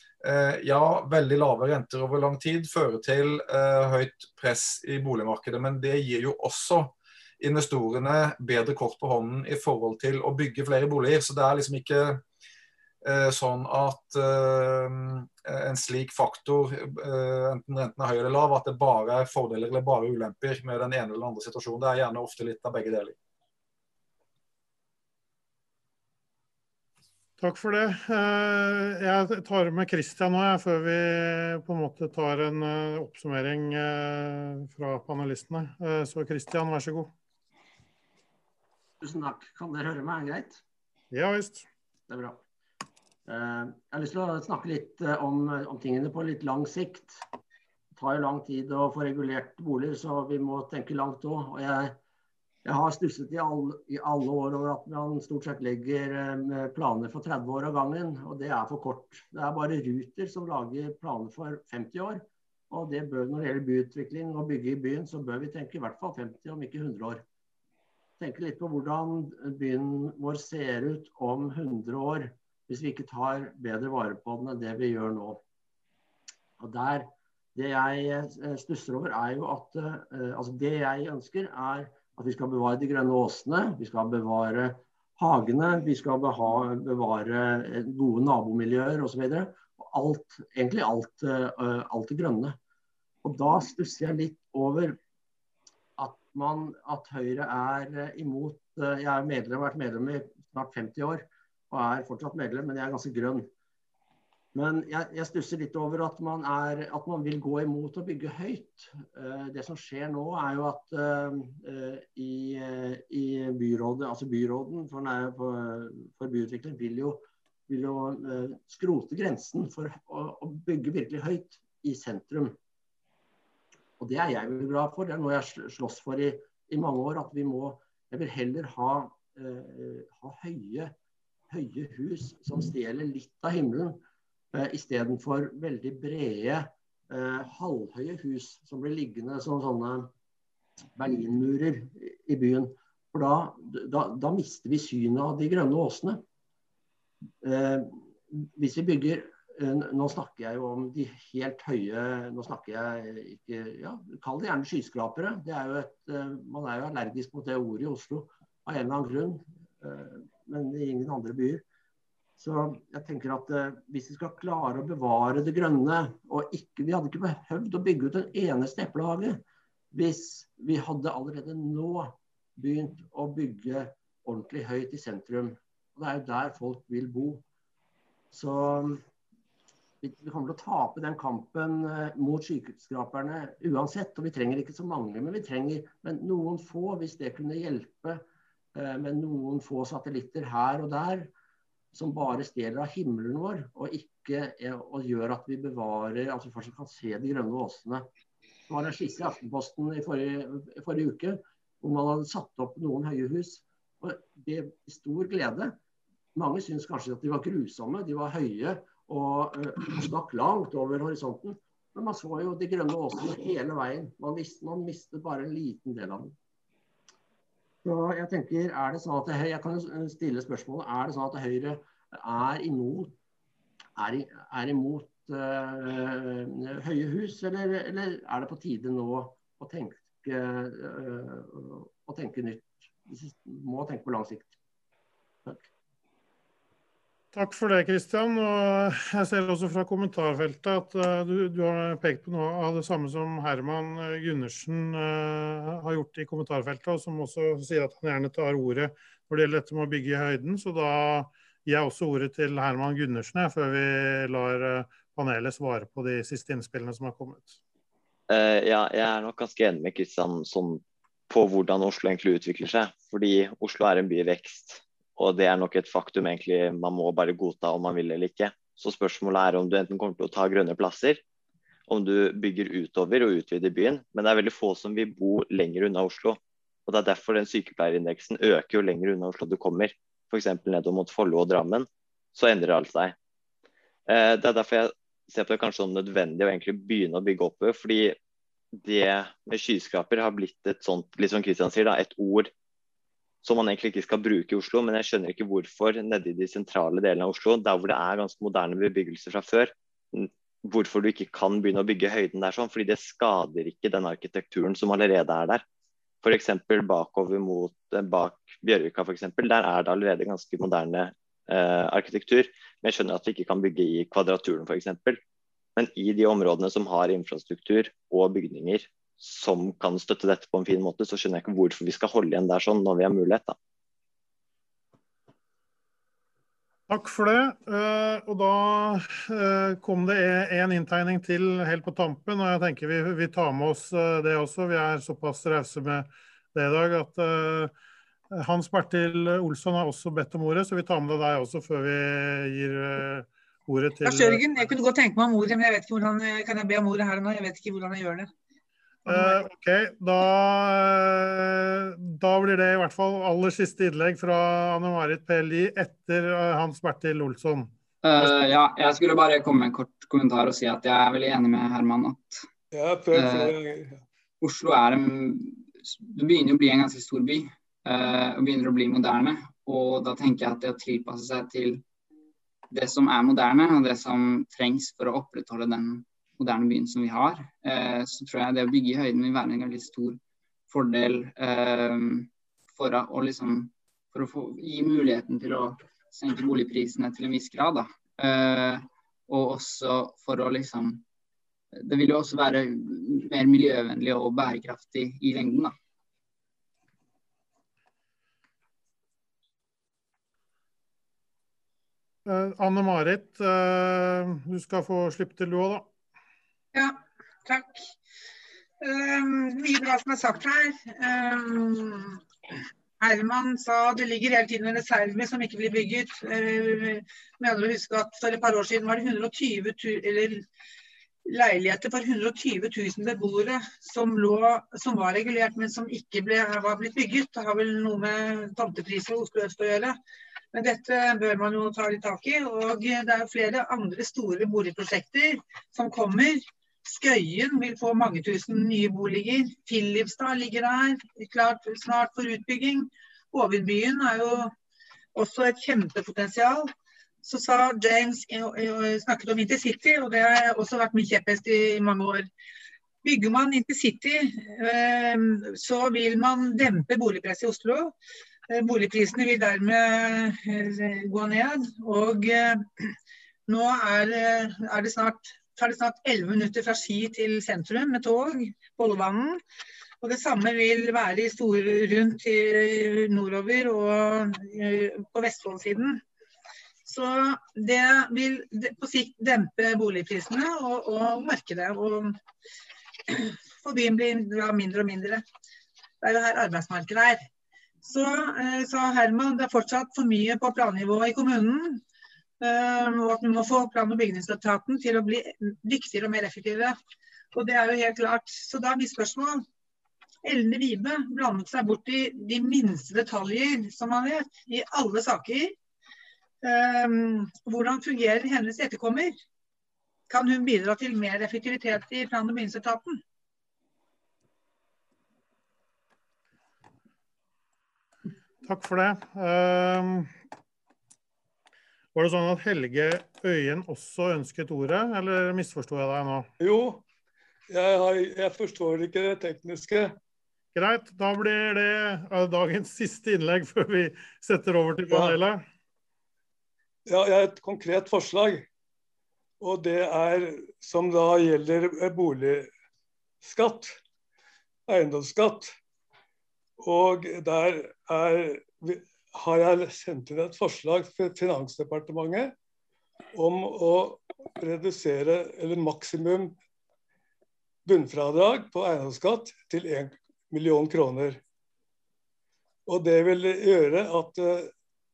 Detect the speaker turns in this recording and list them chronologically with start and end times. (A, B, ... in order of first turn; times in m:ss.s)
0:00.2-0:12.2 A
0:13.0-0:23.2 A
0:27.4-0:37.1 B
0:39.0-0:40.6 C
0:41.1-0:41.6 B
0:42.1-0:42.4 C
0:43.2-0:47.2 C
0:48.0-0:52.0 C
0:52.6-1:07.2 C
1:08.2-1:15.4 C
1:16.6-1:32.6 C
1:33.2-1:35.0 C
1:36.0-1:43.5 C
1:44.5-2:02.6 C
2:04.0-2:10.9 C
2:11.5-2:14.0 C
2:14.5-2:20.1 C
2:20.9-2:26.2 C
2:27.4-2:41.6 C
2:42.4-2:57.4 C
2:58.3-2:59.0 C
3:00.0-3:08.2 C
3:08.7-3:11.3 C
3:11.9-3:18.1 C
3:18.7-3:25.8 C
3:26.3-3:36.4 C
3:37.8-3:43.2 C
3:44.0-3:54.6 C
3:57.3-4:17.6 B
4:18.3-4:31.2 D
4:31.9-4:43.1 D
4:44.1-4:48.2 D
4:48.8-4:52.5 D
4:53.4-5:05.6 D
5:06.2-5:15.2 D
5:15.8-5:23.5 D
5:26.9-5:37.7 B
5:38.3-5:44.4 B
5:44.0-5:48.3 E
5:49.0-5:57.7 B
5:49.1-5:49.4 E
5:58.0-6:02.4 F
6:02.7-6:04.0 G
6:03.1-6:03.5 F
6:04.4-6:11.8 F
6:12.7-6:31.0 F
6:31.7-6:35.8 F
6:42.2-6:45.9 B
6:46.7-6:47.9 E
6:48.8-6:52.2 E
6:53.0-7:00.4 E
7:01.3-7:10.0 E
7:10.5-7:24.5 E
7:25.1-7:26.7 E
7:27.2-7:32.3 E
7:33.0-7:37.9 E
7:38.5-7:42.9 E
7:43.5-7:49.4 E
7:50.0-7:56.0 E
7:56.8-8:02.2 E
8:03.1-8:05.2 E
8:06.0-8:07.2 E
8:07.8-8:11.8 E
8:12.4-8:16.8 E
8:17.3-8:19.4 E
8:20.2-8:25.5 E
8:26.4-8:29.1 E
8:30.1-8:33.0 E
8:38.4-8:40.1 B
8:41.9-8:46.3 B
8:46.4-8:46.8 G
8:47.5-8:50.0 G
8:50.5-8:55.4 B
8:54.9-8:55.2 G
8:56.8-8:58.5 G
8:59.4-9:02.5 G
9:03.2-9:03.8 G
9:04.7-9:05.5 G
9:06.6-9:12.3 G
9:13.1-9:16.4 G
9:17.6-9:21.2 G
9:22.6-9:24.5 G